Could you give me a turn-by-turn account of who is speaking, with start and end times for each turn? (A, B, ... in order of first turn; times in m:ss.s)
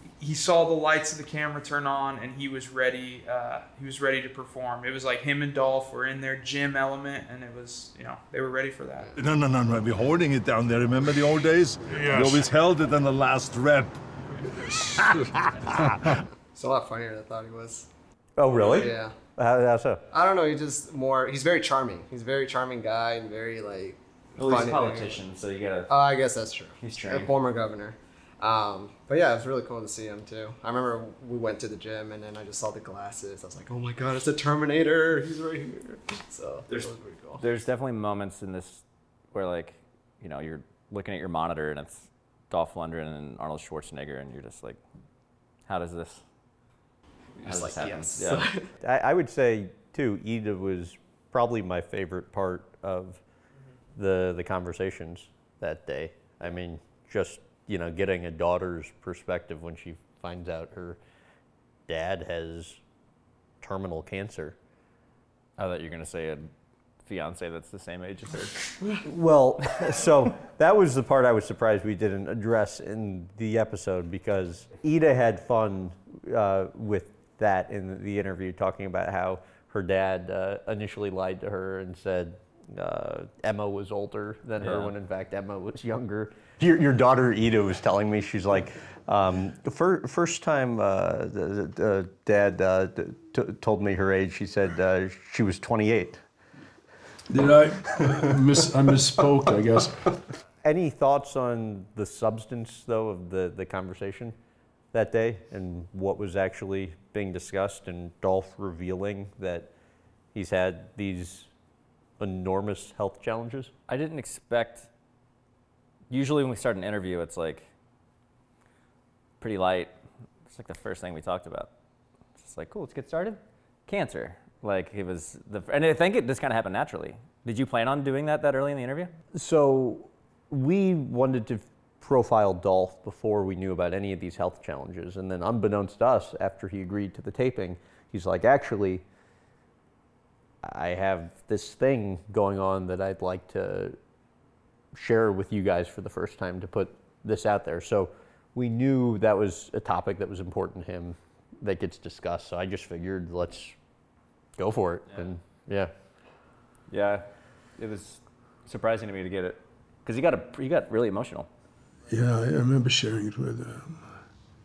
0:00.2-0:09.1 A
0:09.1-0:16.2 B
0:16.5-0:17.9 C
0:18.4-0:20.0 D
0:18.5-0:19.1 C
0:20.1-0:25.2 C
0:24.4-0:25.9 E
0:25.9-0:37.4 C
0:26.8-0:27.3 E
0:37.4-0:44.8 E
0:45.7-0:46.2 E
0:47.4-0:48.7 C
0:47.4-0:48.5 E
0:48.8-0:53.2 D
0:54.0-1:01.0 D
1:01.9-1:02.8 D
1:03.6-1:04.6 D
1:05.6-1:06.5 E
1:07.0-1:08.7 E
1:09.0-1:36.2 D
1:24.6-1:24.9 E
1:37.3-1:40.2 F
1:40.6-1:44.3 D
1:44.9-1:49.7 D
1:50.3-1:51.5 D
1:52.2-1:53.7 D
1:53.9-1:54.9 E
1:56.1-1:57.7 E
1:59.4-1:59.9 E
2:00.5-2:01.7 E
2:02.4-2:09.1 E
2:09.3-2:19.0 D
2:20.6-2:24.0 D
2:24.9-2:33.7 D
2:34.6-2:35.9 D
2:36.9-2:37.2 E
2:37.8-2:41.5 E
2:42.1-2:44.0 F